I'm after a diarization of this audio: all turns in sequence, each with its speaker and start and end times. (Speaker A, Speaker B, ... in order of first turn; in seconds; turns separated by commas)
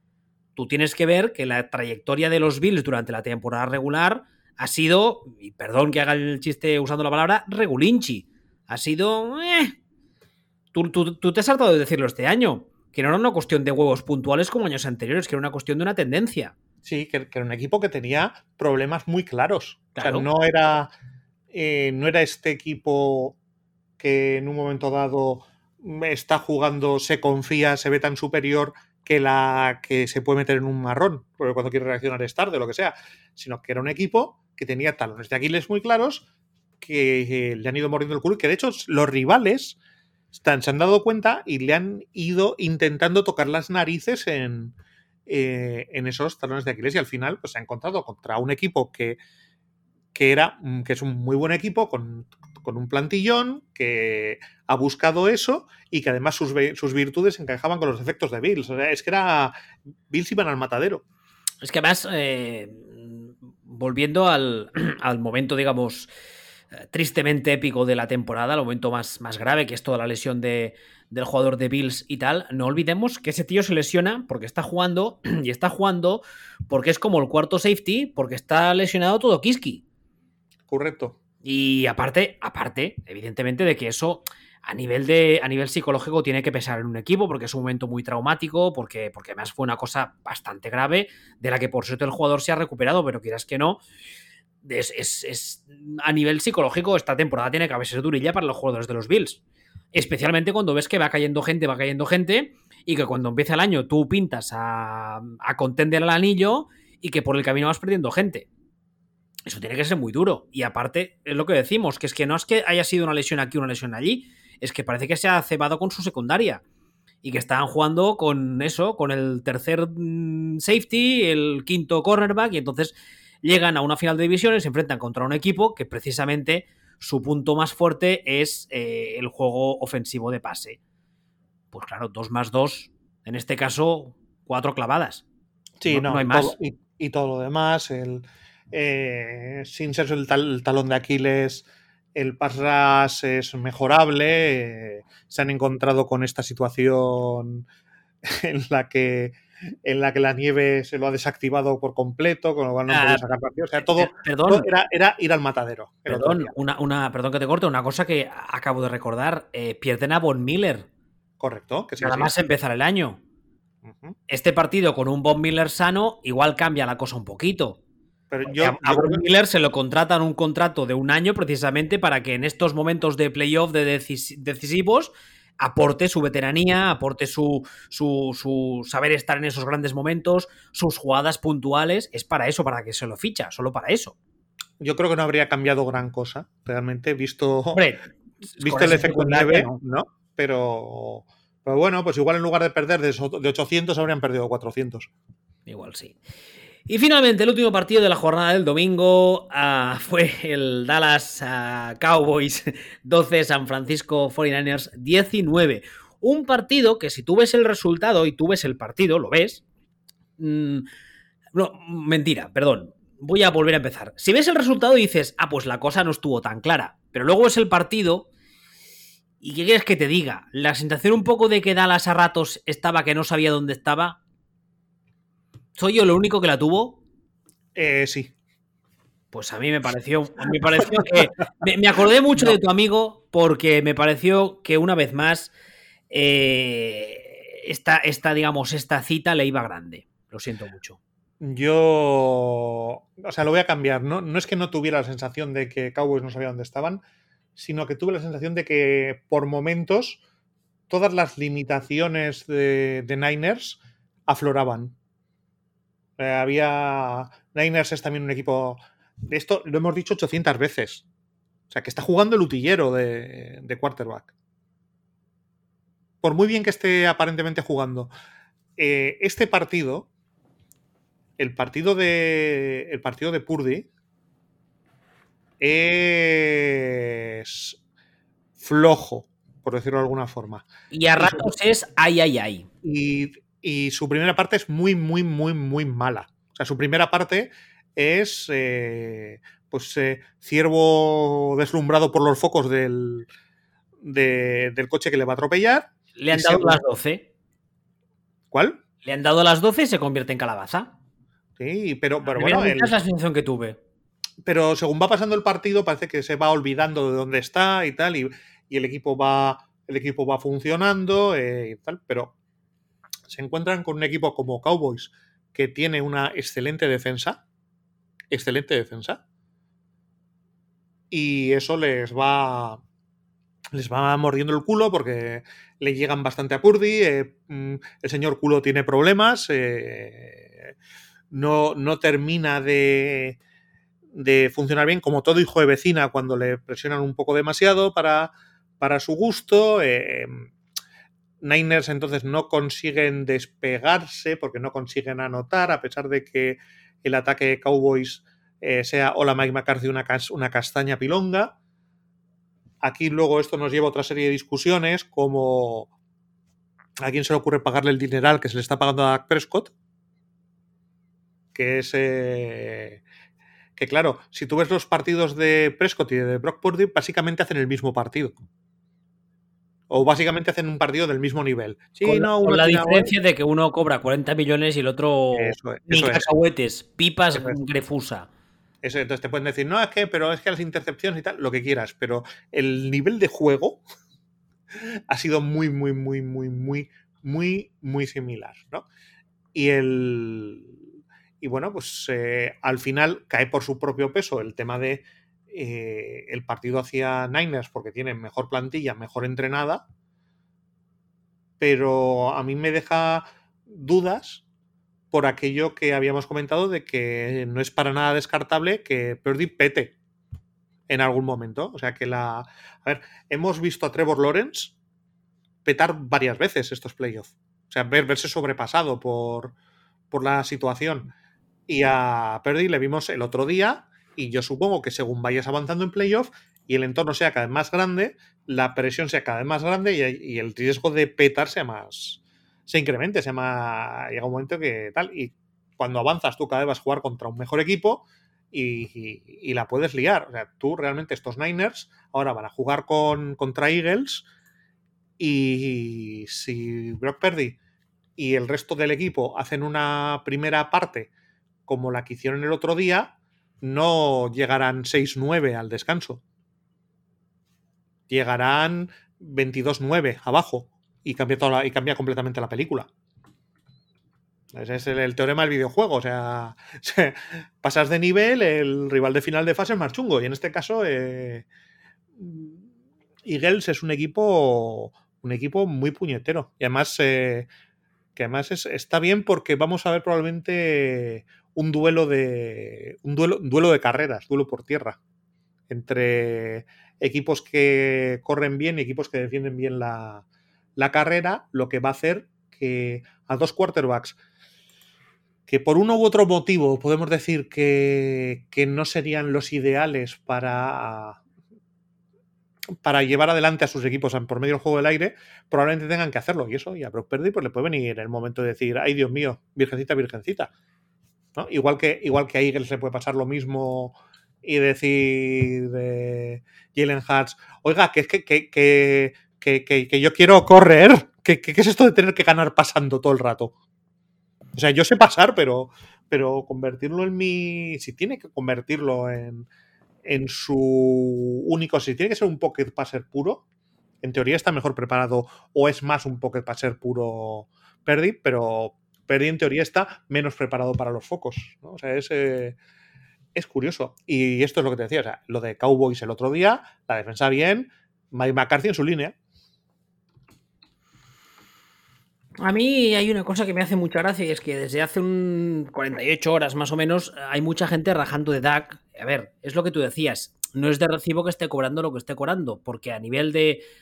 Speaker A: 0.6-9.8, Speaker A: 10.7-16.5, Speaker B: 16.8-20.9, Speaker A: 19.9-20.3, Speaker B: 21.5-23.4, Speaker B: 24.0-36.2, Speaker B: 36.8-39.8, Speaker B: 40.3-44.8, Speaker B: 45.3-49.2, Speaker B: 50.1-59.5, Speaker B: 60.1-61.0, Speaker A: 61.6-66.1, Speaker A: 66.9-79.8, Speaker B: 80.7-81.2, Speaker A: 81.4-93.8, Speaker A: 94.6-99.4, Speaker A: 99.9-108.5, Speaker A: 109.5-116.6, Speaker A: 117.2-130.8, Speaker A: 131.7-135.2, Speaker B: 135.8-147.7, Speaker A: 135.9-136.6, Speaker B: 148.2-156.5, Speaker A: 152.9-153.2, Speaker A: 153.8-154.7, Speaker A: 156.1-160.9, Speaker B: 161.4-162.3, Speaker A: 162.0-163.2, Speaker B: 163.8-164.2, Speaker A: 164.3-167.8, Speaker B: 168.3-169.2, Speaker A: 168.4-184.2, Speaker B: 184.8-187.8, Speaker A: 187.7-188.0, Speaker A: 188.6-189.8, Speaker B: 188.6-195.1, Speaker A: 195.7-196.2, Speaker A: 196.9-209.6, Speaker A: 210.4-210.8, Speaker A: 211.5-218.3, Speaker A: 219.4-224.2, Speaker A: 225.8-227.0, Speaker B: 227.7-228.3, Speaker A: 229.3-235.5, Speaker A: 236.1-241.0, Speaker B: 241.4-247.0, Speaker B: 247.6-250.2, Speaker B: 250.9-254.9, Speaker B: 256.2-261.0, Speaker B: 261.7-264.3, Speaker B: 266.2-268.1, Speaker B: 268.8-270.1, Speaker B: 271.4-273.9, Speaker B: 275.6-277.8, Speaker B: 278.6-281.4, Speaker A: 280.9-282.7, Speaker B: 282.8-293.3, Speaker B: 294.0-296.8, Speaker A: 296.2-297.3, Speaker B: 298.5-298.8, Speaker A: 299.0-300.9, Speaker B: 301.6-302.9, Speaker A: 302.3-303.8, Speaker B: 304.4-312.3, Speaker B: 313.3-317.4, Speaker B: 318.3-319.2, Speaker B: 321.1-322.8, Speaker B: 323.7-330.7, Speaker B: 331.3-333.4, Speaker B: 334.1-340.5, Speaker B: 341.4-351.5, Speaker B: 352.8-355.9, Speaker B: 357.0-359.7, Speaker B: 361.5-363.0, Speaker B: 363.8-368.3, Speaker B: 369.9-373.1, Speaker A: 372.0-378.3, Speaker B: 375.3-376.3, Speaker B: 378.8-383.8, Speaker B: 384.7-388.9, Speaker B: 389.5-390.8, Speaker B: 391.4-399.8, Speaker B: 401.6-404.4, Speaker B: 405.1-409.9, Speaker B: 410.9-414.8, Speaker B: 415.6-419.5, Speaker B: 420.1-421.1, Speaker B: 421.7-444.2, Speaker B: 445.2-447.6, Speaker B: 448.2-451.1, Speaker B: 451.7-456.2, Speaker B: 458.1-462.9, Speaker B: 464.5-471.4, Speaker B: 472.2-472.7, Speaker B: 473.2-477.5, Speaker B: 478.1-485.0, Speaker B: 485.7-490.2, Speaker B: 490.8-494.2, Speaker B: 495.5-501.2, Speaker B: 502.8-510.5, Speaker B: 511.4-523.5, Speaker B: 524.5-529.5, Speaker B: 530.0-533.4, Speaker B: 534.0-542.6, Speaker B: 543.3-549.1, Speaker A: 552.4-563.6